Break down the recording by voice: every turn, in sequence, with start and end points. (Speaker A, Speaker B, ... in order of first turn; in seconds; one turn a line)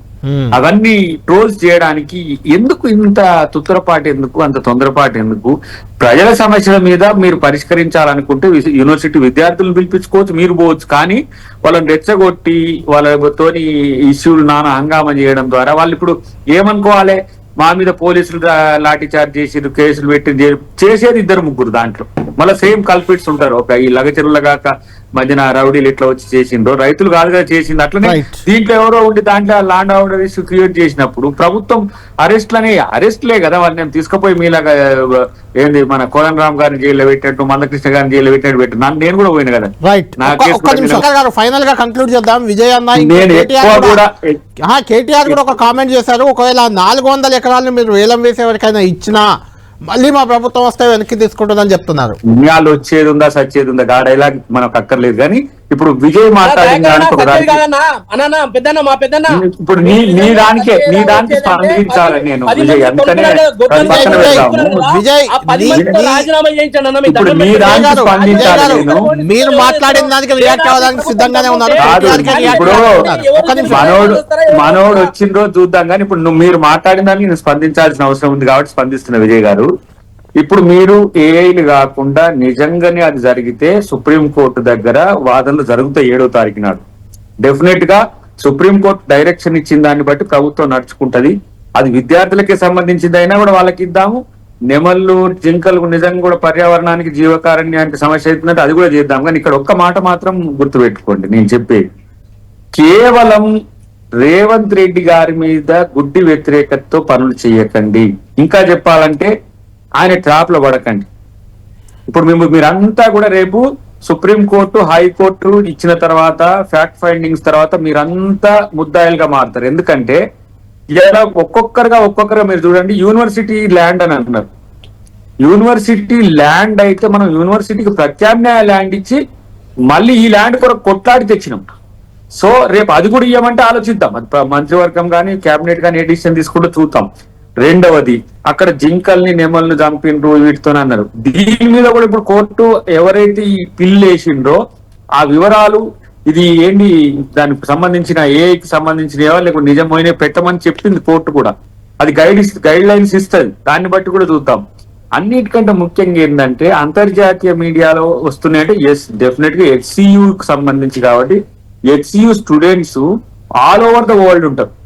Speaker A: 0.2-0.6
Speaker B: 0.6-41.0
Speaker A: 28.0-28.4
Speaker A: 39.8-44.0
Speaker B: 42.9-44.4
Speaker A: 44.7-49.2
Speaker A: 49.9-52.1
Speaker B: 52.4-57.6
Speaker C: 56.4-75.1
Speaker B: 59.3-64.8
Speaker A: 63.8-65.8
Speaker B: 65.7-66.2
Speaker B: 67.1-69.1
Speaker A: 67.6-74.0
Speaker B: 71.8-72.8
Speaker B: 73.7-79.7
Speaker B: 80.4-86.8
Speaker B: 87.4-94.2
Speaker B: 94.7-101.8
Speaker B: 102.7-103.5
Speaker B: 104.2-109.3
Speaker B: 110.0-111.1
Speaker B: 112.1-120.2
Speaker B: 120.9-124.5
Speaker B: 125.4-129.2
Speaker B: 129.9-131.6
Speaker B: 132.4-137.1
Speaker B: 137.6-144.6
Speaker B: 145.2-154.6
Speaker B: 155.2-161.4
Speaker B: 161.9-163.0
Speaker B: 163.6-164.7